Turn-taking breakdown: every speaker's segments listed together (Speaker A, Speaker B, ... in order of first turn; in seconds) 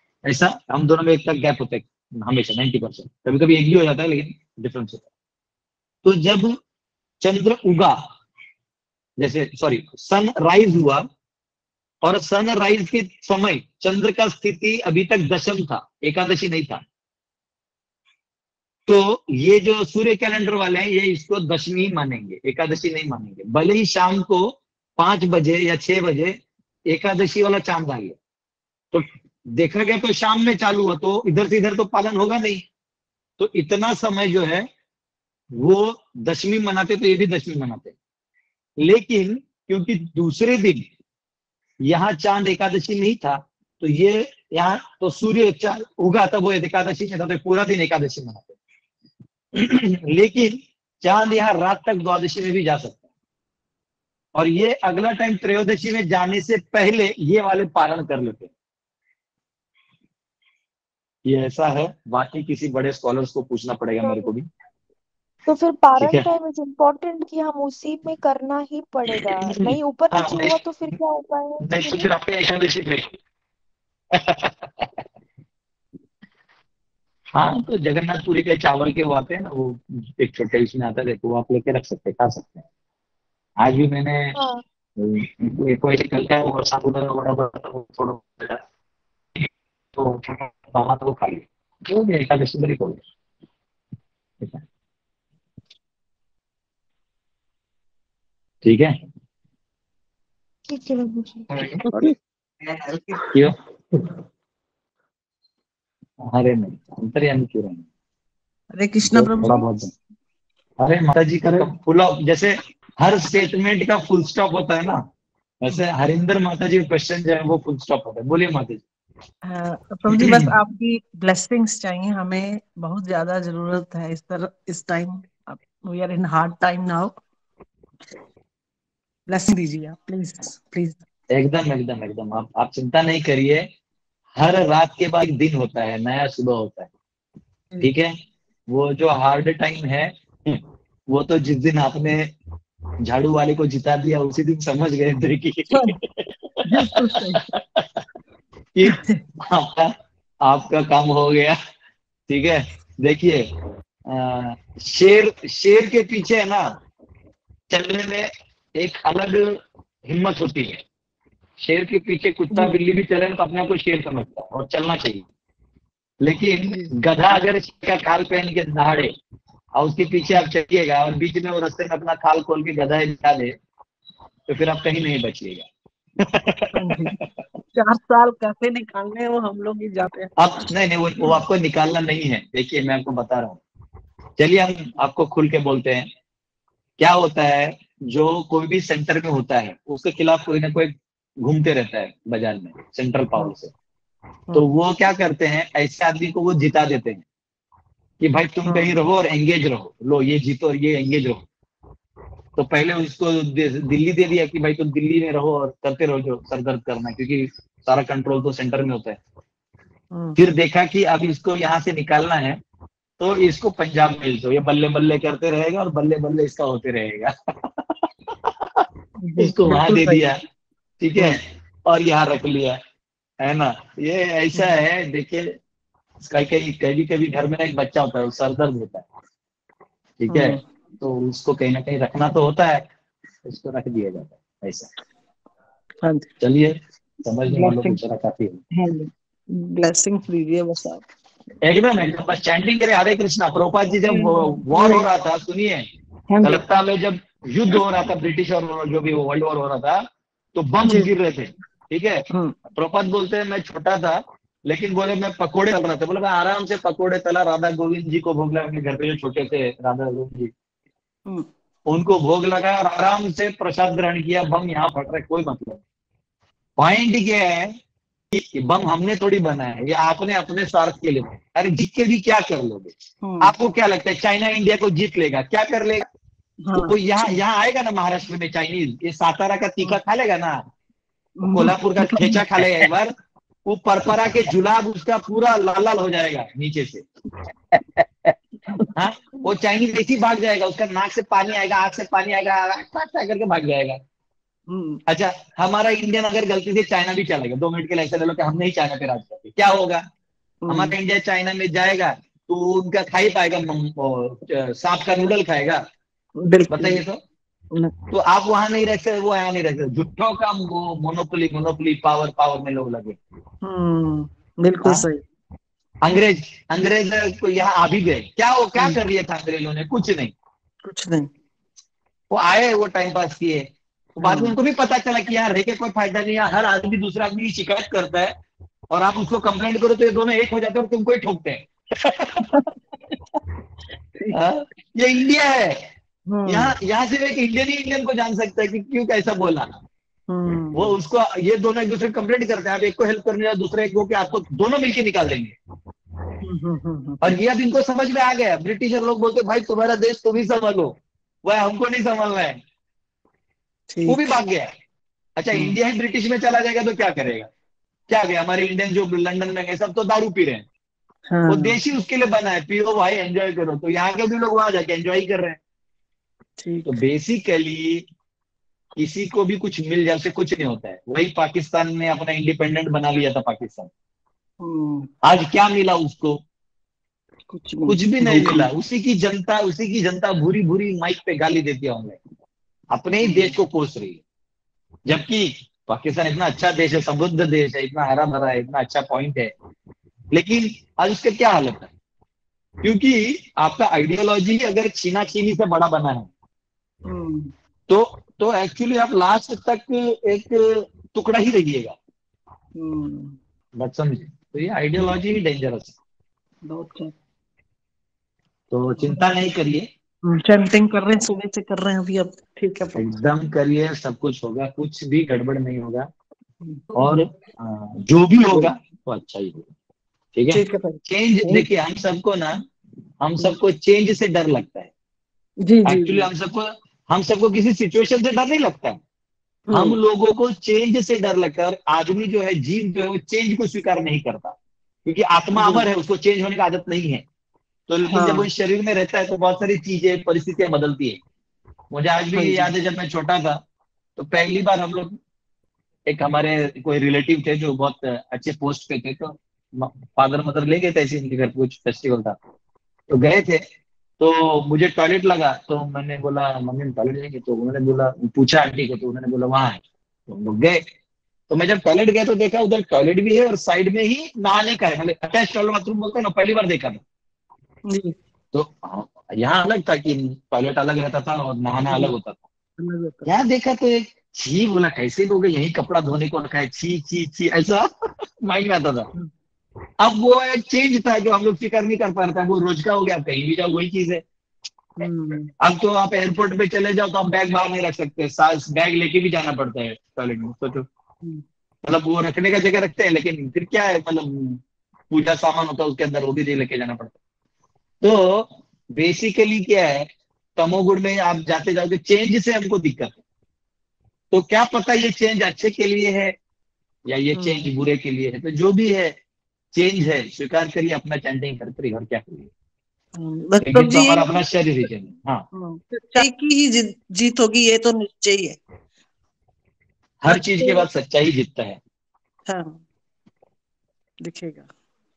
Speaker A: 0.3-5.1, 6.0-6.6, 7.2-8.0, 9.2-11.1, 12.0-16.8, 18.9-26.4, 26.9-28.2, 28.9-32.6, 33.4-34.7, 35.5-38.0, 38.8-40.9, 41.8-48.5, 49.5-53.0, 54.4-58.5, 61.2-64.5, 66.0-66.3, 69.5-70.5, 71.6-73.1, 74.1-74.9, 77.3-82.6, 83.6-84.4, 85.0-88.6, 90.0-93.0, 98.6-99.0, 103.2-104.1, 106.2-107.8, 109.0-109.9, 110.8-115.0, 115.6-118.8, 120.1-120.6, 131.3-133.7, 134.4-136.9, 137.8-138.2, 138.7-142.3, 143.0-147.8, 148.7-151.6, 152.3-153.5, 154.1-156.7, 157.7-160.8, 161.6-165.3, 166.2-169.1, 169.8-173.6, 174.5-175.7, 176.2-177.2, 180.4-183.6, 184.4-186.1, 187.0-193.7, 194.5-197.2, 198.2-201.4, 202.6-209.2, 210.4-212.6, 213.2-217.9, 219.4-220.4, 221.0-222.8, 223.4-225.6, 226.2-229.1, 230.2-232.9, 233.4-234.9, 236.4-238.6, 241.6-245.9, 246.4-250.0, 250.6-252.2, 252.7-260.5, 261.9-265.8, 266.8-267.8, 268.3-276.1, 276.7-280.6, 281.5-283.1, 283.7-287.1, 287.7-288.4, 288.9-294.0, 295.1-300.1, 300.7-305.8, 306.7-307.2, 308.1-313.2, 314.8-315.1, 316.0-320.3, 322.3-323.7, 324.2-328.3, 328.9-332.6, 334.3-335.9, 336.4-339.7, 340.7-345.5, 347.2-352.6, 354.1-354.7, 355.4-357.5, 358.1-360.7, 361.4-365.6, 366.8-368.1, 369.0-373.9, 375.2-376.4, 377.9-382.2, 382.9-384.2, 385.1-389.5, 390.3-391.9, 392.8-396.3, 397.9-401.9, 403.8-405.9, 408.7-409.9, 412.9-416.1, 416.9-419.7, 420.3-422.6, 423.2-424.9, 425.8-429.0, 429.7-437.2, 437.9-441.2, 441.9-443.6, 444.2-445.2, 446.1-452.4, 453.1-453.7, 454.2-460.8, 461.5-467.0, 468.5-472.4, 473.2-477.9, 478.4-479.1, 480.0-484.2, 485.6-490.9, 491.8-497.1, 498.0-503.2, 504.3-506.4, 507.1-509.2, 509.7-512.5, 513.6-515.5, 520.2-521.8
Speaker B: 64.0-64.3, 65.5-72.1, 84.3-84.6, 100.7-101.8
Speaker C: 108.7-109.7, 119.5-127.2, 129.3-131.0, 146.7-147.4, 148.9-149.2, 176.7-177.2, 177.7-180.3, 198.6-199.0, 219.2-220.3, 230.3-230.6, 236.0-236.3, 237.5-238.0, 238.7-241.0, 244.1-245.1, 246.3-246.6, 273.2-273.5, 276.6-277.4, 281.4-282.4, 294.7-295.0, 300.6-300.9, 306.4-307.0, 313.6-315.2, 320.8-321.3, 324.2-324.6, 336.3-336.8, 340.3-340.9, 346.4-347.2, 353.9-354.2, 361.3-361.8, 366.6-366.9, 374.6-375.1, 377.5-378.7, 383.2-383.5, 397.1-397.5, 402.8-403.4, 406.6-407.1, 410.2-413.1, 416.6-416.9, 420.5-421.7, 425.6-426.3, 429.7-430.0, 435.6-435.9, 438.1-438.5, 442.4-442.7, 467.9-468.1, 472.8-473.3, 485.0-485.5, 507.3-507.7, 513.2-514.4, 515.5-518.6, 522.5-522.8, 524.2-524.7